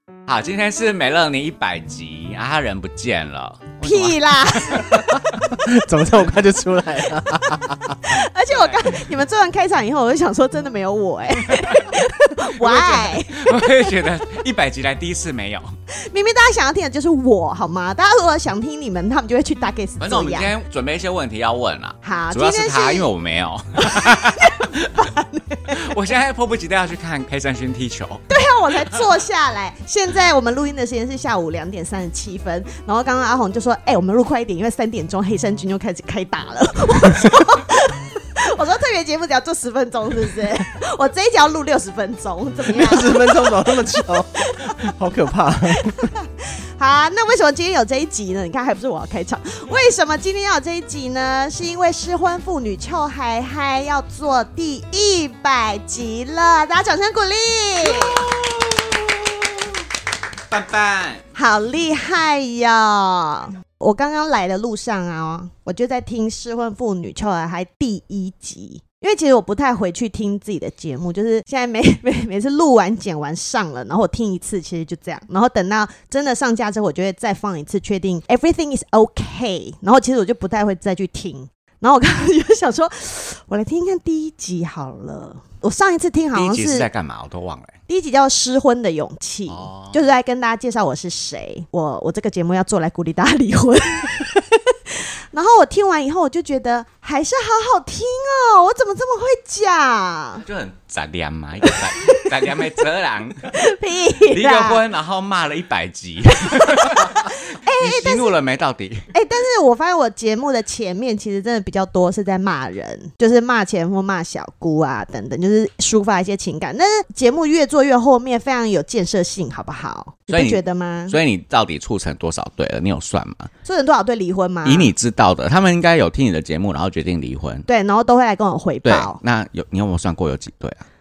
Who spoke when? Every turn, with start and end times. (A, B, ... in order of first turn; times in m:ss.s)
0:00.3-0:05.5 A
0:03.8-0:05.0 B
0:05.5-0:08.2 C
0:08.1-0:14.1 B
0:08.5-0:08.8 A
0:11.5-0:15.7 A
0:15.9-0:20.5 B
0:20.0-0:25.0 A
0:22.0-0:23.1 B
0:23.8-0:26.0 B
0:25.7-0:28.2 A
0:28.3-0:44.8 B
0:42.6-0:46.1 C
0:45.8-0:58.3 B
0:57.8-0:59.3 A
1:00.5-1:01.2 A
1:01.3-1:26.9 B
1:26.3-1:27.7 A
1:27.9-1:40.4 B
1:29.5-1:30.0 A
1:40.4-1:43.5 A
1:41.7-1:42.7 B
1:43.5-1:44.8 B
1:44.2-1:49.0 A
1:46.4-1:48.3 B
1:49.1-2:01.2 B
2:00.3-2:03.5 A
2:03.6-2:04.9 B
2:04.6-2:07.7 A
2:07.7-2:09.2 B
2:08.8-2:10.8 A